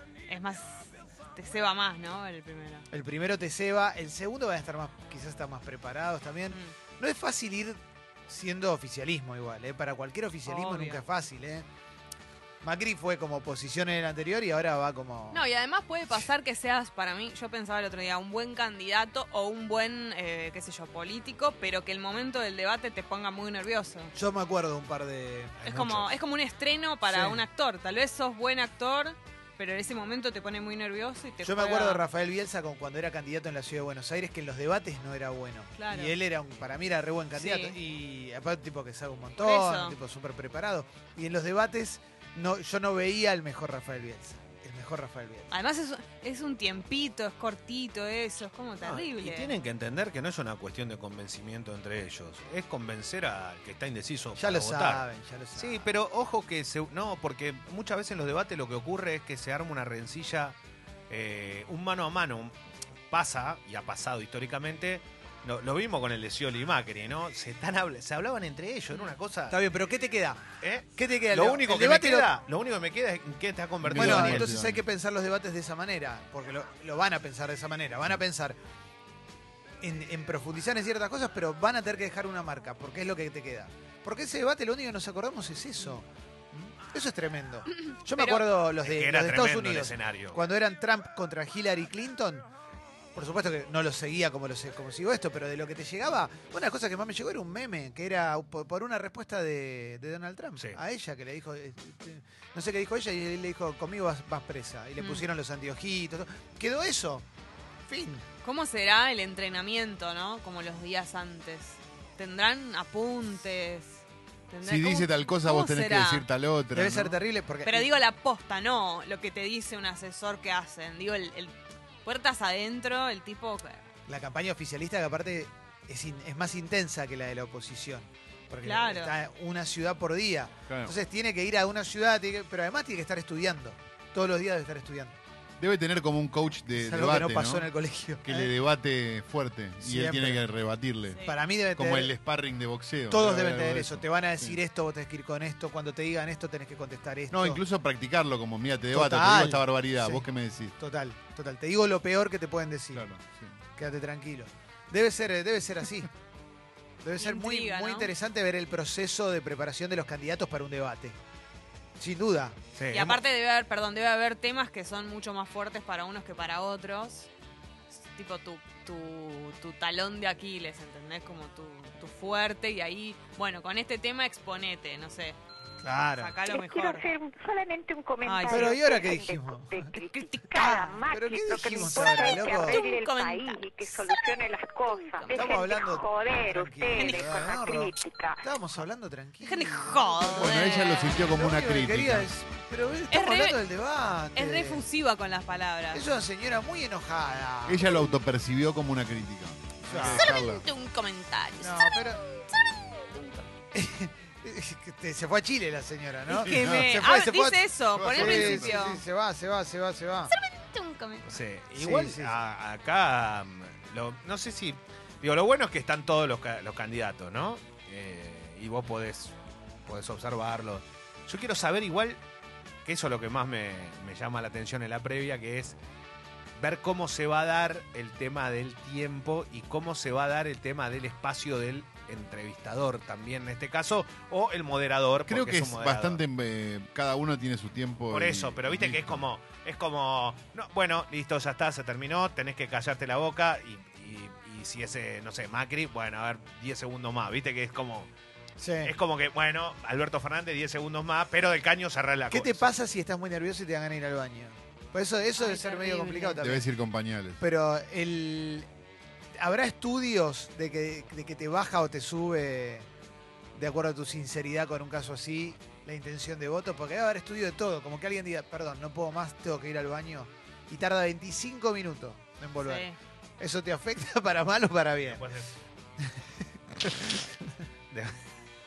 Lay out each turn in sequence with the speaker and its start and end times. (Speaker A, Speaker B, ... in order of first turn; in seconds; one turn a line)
Speaker A: 0.3-2.9
Speaker B: 2.9-11.7
Speaker A: 10.4-11.0
Speaker B: 12.6-15.4
Speaker A: 15.3-24.1
Speaker B: 24.1-25.9
Speaker A: 25.6-32.0
Speaker B: 27.1-27.4
Speaker B: 31.4-45.5
Speaker A: 35.8-36.1
Speaker A: 37.4-37.8
Speaker A: 39.4-40.0
Speaker A: 45.5-49.5
Speaker C: 48.8-60.5
Speaker B: 54.3-55.9
Speaker C: 61.1-62.5
Speaker C: 63.1-69.6
Speaker B: 69.5-70.4
Speaker C: 70.6-74.6
Speaker B: 70.9-72.3
Speaker D: 73.8-74.8
Speaker B: 73.9-78.6
Speaker B: 79.8-92.5
Speaker A: 87.9-88.5
Speaker C: 88.8-90.4
Speaker B: 93.1-107.2
Speaker A: 105.0-105.2
Speaker B: 107.9-108.2
Speaker A: 108.4-116.2
Speaker D: 114.6-117.2
Speaker B: 116.7-117.9
Speaker A: 117.6-123.8
Speaker B: 124.1-135.2
Speaker A: 128.6-129.2
Speaker D: 130.7-130.9
Speaker D: 135.6-137.7
Speaker B: 136.8-138.5
Speaker D: 138.2-141.2
Speaker B: 139.8-140.4
Speaker A: 141.1-141.4
Speaker B: 141.2-142.1
Speaker D: 141.7-144.6
Speaker B: 143.1-147.6
Speaker D: 147.3-150.8
Speaker B: 148.9-150.3
Speaker B: 150.8-153.1
Speaker D: 152.9-153.6
Speaker B: 153.8-156.1
Speaker B: 157.0-161.2
Speaker A: 157.2-158.1
Speaker B: 162.0-162.6
Speaker C: 162.7-163.2
Speaker A: 162.9-167.3
Speaker A: 167.9-175.4
Speaker B: 175.8-176.3
Speaker A: 176.1-177.2
Speaker E: 176.5-188.4
Speaker A: 178.2-179.2
Speaker B: 178.5-179.8
Speaker A: 179.9-181.1
Speaker B: 181.1-182.8
Speaker A: 181.7-184.2
Speaker A: 185.0-185.7
Speaker B: 185.3-194.8
Speaker A: 186.9-187.6
Speaker A: 189.4-191.3
Speaker D: 190.4-192.3
Speaker A: 193.1-193.6
Speaker A: 194.3-196.0
Speaker B: 195.9-198.2
Speaker D: 197.7-200.6
Speaker B: 199.9-200.3
Speaker A: 199.9-203.5
Speaker B: 201.6-202.2
Speaker B: 203.7-210.3
Speaker A: 206.3-209.0
Speaker D: 206.4-207.0
Speaker D: 207.9-208.9
Speaker A: 210.3-211.3
Speaker C: 211.3-219.3
Speaker B: 211.8-212.3
Speaker C: 219.8-222.2
Speaker C: 222.8-225.8
Speaker C: 226.6-236.2
Speaker D: 235.3-239.3
Speaker C: 238.1-248.1
Speaker B: 248.6-248.9
Speaker C: 248.8-252.7
Speaker B: 252.3-256.6
Speaker A: 255.4-256.4
Speaker D: 256.4-257.4
Speaker B: 257.4-258.7
Speaker B: 259.4-262.9
Speaker B: 263.5-272.9
Speaker A: 272.6-273.0
Speaker B: 273.4-275.2
Speaker C: 275.0-275.5
Speaker B: 276.8-277.3
Speaker C: 277.9-278.2